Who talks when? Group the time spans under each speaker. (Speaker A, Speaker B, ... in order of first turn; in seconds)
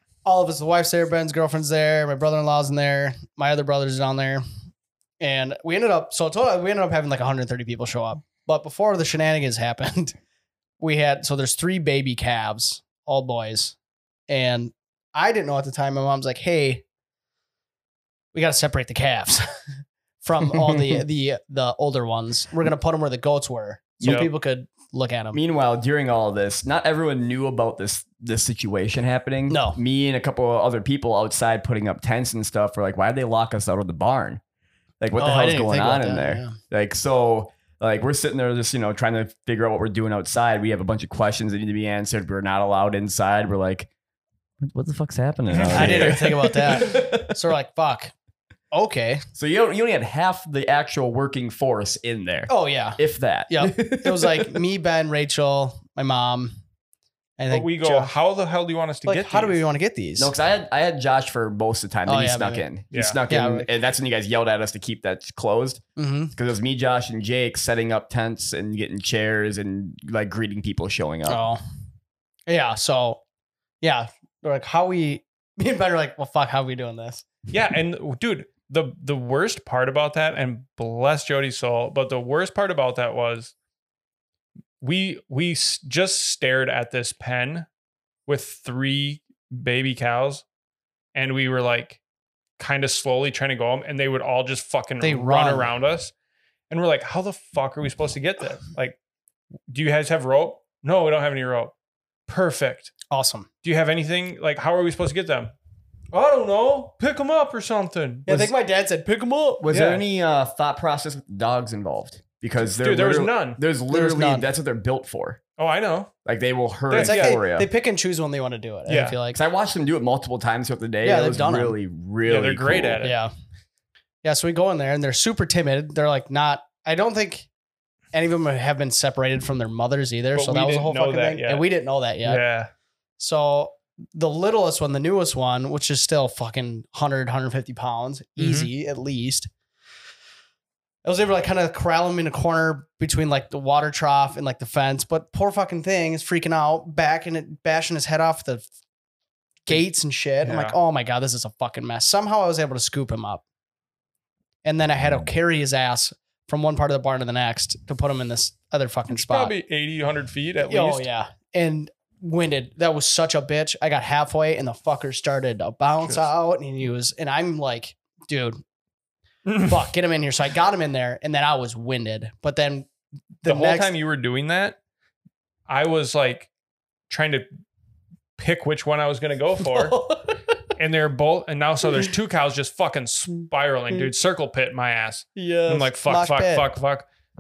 Speaker A: 0.2-4.4, 5.2-10.2, 10.8-13.8, 14.3-16.8, 18.3-19.4, 20.2-25.4, 29.5-29.8, 35.2-36.6, 45.7-48.1, 48.7-49.2, 52.5-56.5, 57.4-58.1, 59.0-60.3, 62.1-62.7, 63.3-63.7, 66.0-66.3, 71.3-71.6, 72.5-73.2, 73.8-77.3, 95.0-95.7, 103.1-103.5, 108.3-109.6, 113.9-114.5, 117.0-119.4, 121.0-121.8, 123.0-123.3, 124.2-127.5, 128.1-132.4, 133.2-139.5, 141.0-148.7, 149.7-153.4, 154.7-159.6, 160.7-168.6, 169.6-172.9, 173.4-173.9, 180.0-180.3, 185.4-186.7
Speaker B: 24.0-24.3, 45.5-46.2, 57.5-59.6, 62.9-63.2, 77.5-83.5, 84.8-87.7, 88.3-90.5, 91.2-92.0, 92.6-96.1, 96.7-99.0, 99.7-101.7, 102.3-102.9, 103.6-105.5, 106.1-108.5, 109.7-110.0, 112.8-113.6, 115.6-116.1, 116.9-117.4, 118.9-119.2, 122.3-123.2, 130.3-131.7, 132.2-132.7, 138.4-138.7, 150.4-150.8, 159.1-161.1, 169.5-169.8, 173.4-174.8, 175.7-176.5, 177.1-177.5, 178.4-180.0, 180.8-187.1
Speaker C: 25.3-34.4, 35.0-43.9, 44.6-47.4, 49.4-54.6, 60.2-65.8, 66.3-71.4, 109.6-115.4, 116.2-117.7, 119.3-123.0